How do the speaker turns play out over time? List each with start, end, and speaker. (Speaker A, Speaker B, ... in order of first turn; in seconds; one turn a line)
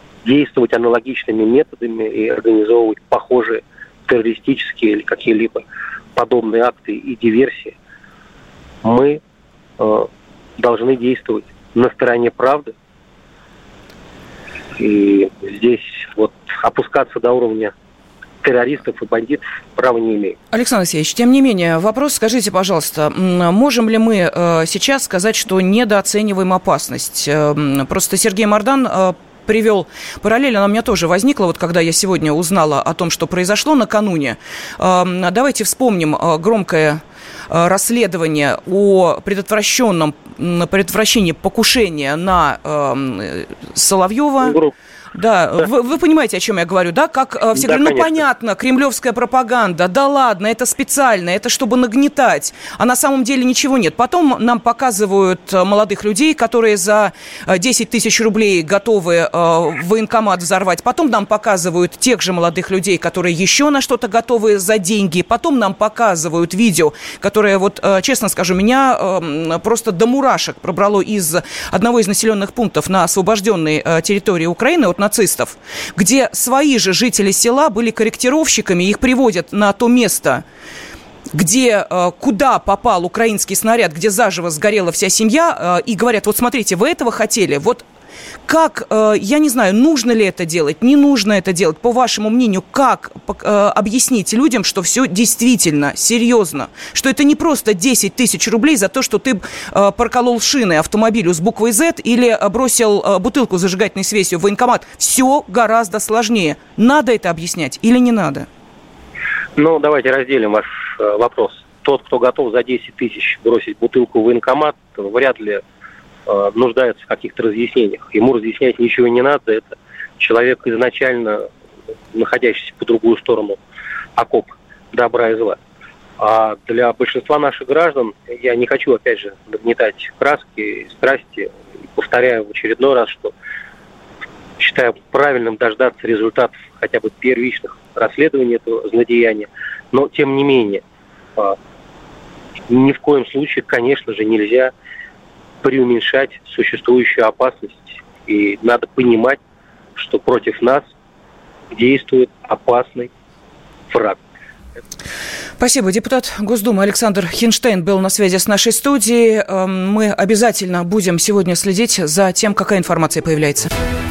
Speaker A: 0.2-5.6
Speaker A: 6.1-7.7
Speaker A: 8.8-9.2
Speaker A: 9.8-12.7
Speaker A: 14.8-17.7
Speaker A: 18.4-20.4
Speaker B: 20.5-44.6
Speaker A: 44.4-44.7
Speaker B: 45.1-80.4
Speaker A: 47.5-48.2
Speaker B: 81.3-87.8
Speaker B: 88.5-108.5
Speaker A: 109.5-115.6
Speaker A: 116.3-121.5
Speaker A: 122.1-123.6
Speaker A: 124.2-125.6
Speaker A: 126.2-133.3
Speaker A: 134.6-140.8
Speaker A: 142.7-144.7
Speaker A: 145.6-149.4
Speaker A: 149.9-150.8
Speaker A: 151.7-153.1
Speaker A: 153.9-154.2
Speaker B: 155.6-163.7